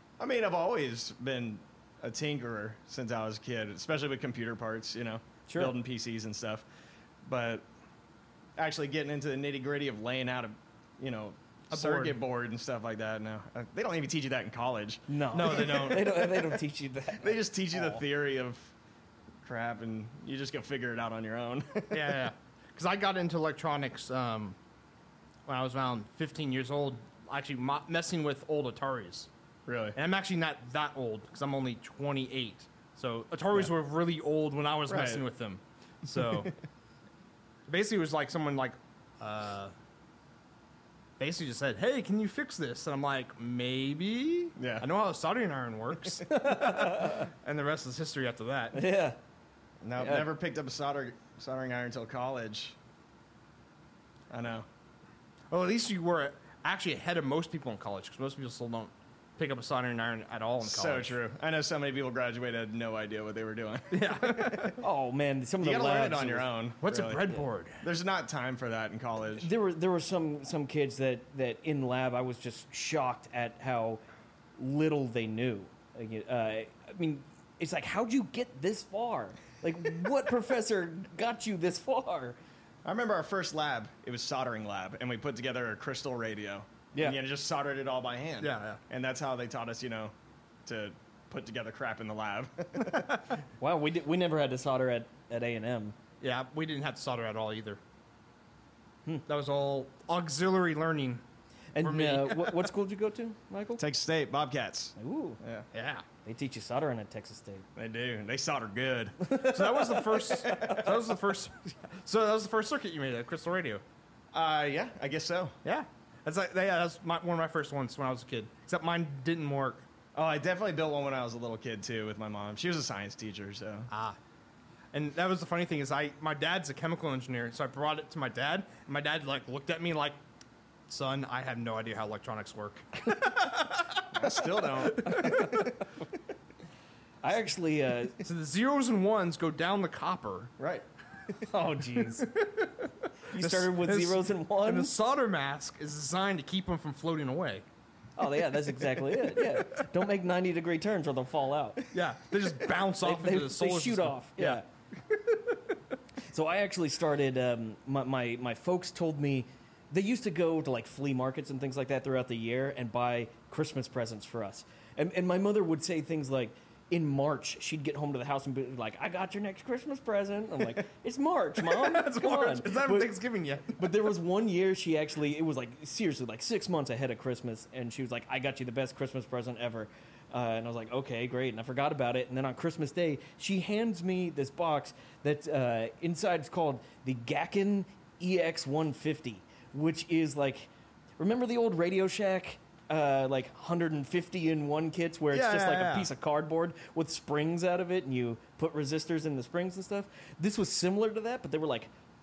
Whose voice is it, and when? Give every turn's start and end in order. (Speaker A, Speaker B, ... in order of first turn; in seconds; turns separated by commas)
Speaker A: 0.2-6.6, Speaker B: 5.5-5.8, Speaker A: 7.2-7.7, Speaker A: 8.6-16.6, Speaker C: 11.7-12.2, Speaker B: 15.1-18.0, Speaker C: 15.3-16.2, Speaker A: 17.2-18.7, Speaker A: 19.4-22.2, Speaker C: 21.9-24.6, Speaker C: 25.5-29.3, Speaker A: 29.7-30.0, Speaker C: 29.9-36.5, Speaker A: 34.9-35.2, Speaker C: 37.7-39.7, Speaker C: 41.2-48.8, Speaker A: 44.6-44.9, Speaker B: 46.3-47.3, Speaker B: 48.7-49.2, Speaker A: 49.8-52.8, Speaker B: 50.0-50.3, Speaker A: 54.3-54.7, Speaker C: 55.5-61.2, Speaker A: 60.6-64.8, Speaker C: 63.9-64.8, Speaker B: 64.8-66.5, Speaker A: 65.6-69.5, Speaker C: 66.8-67.8, Speaker B: 69.4-74.0, Speaker B: 74.6-82.4, Speaker A: 82.8-90.1, Speaker C: 88.4-88.8, Speaker A: 90.6-93.2, Speaker C: 92.8-93.2, Speaker B: 93.6-96.0, Speaker C: 96.2-97.8, Speaker C: 99.3-101.2, Speaker B: 101.7-103.8, Speaker C: 101.8-102.7, Speaker A: 103.8-105.7, Speaker B: 105.0-105.4, Speaker C: 105.7-106.0, Speaker B: 106.2-107.6, Speaker A: 107.8-111.1, Speaker B: 109.3-110.8, Speaker C: 109.3-113.8, Speaker A: 114.3-115.5, Speaker C: 115.6-119.8, Speaker A: 120.1-123.9, Speaker C: 123.9-124.2, Speaker C: 124.9-130.2, Speaker C: 130.9-135.8, Speaker A: 134.1-135.4, Speaker B: 135.2-135.7, Speaker B: 137.2-138.2, Speaker C: 138.2-140.5, Speaker A: 140.6-140.8, Speaker B: 141.5-142.3, Speaker C: 142.2-147.6, Speaker B: 143.3-144.9, Speaker B: 148.2-151.8, Speaker C: 149.1-149.6, Speaker C: 151.9-155.5, Speaker B: 153.0-154.6, Speaker B: 156.2-173.1, Speaker C: 171.6-173.9, Speaker B: 173.7-201.9, Speaker C: 195.3-196.1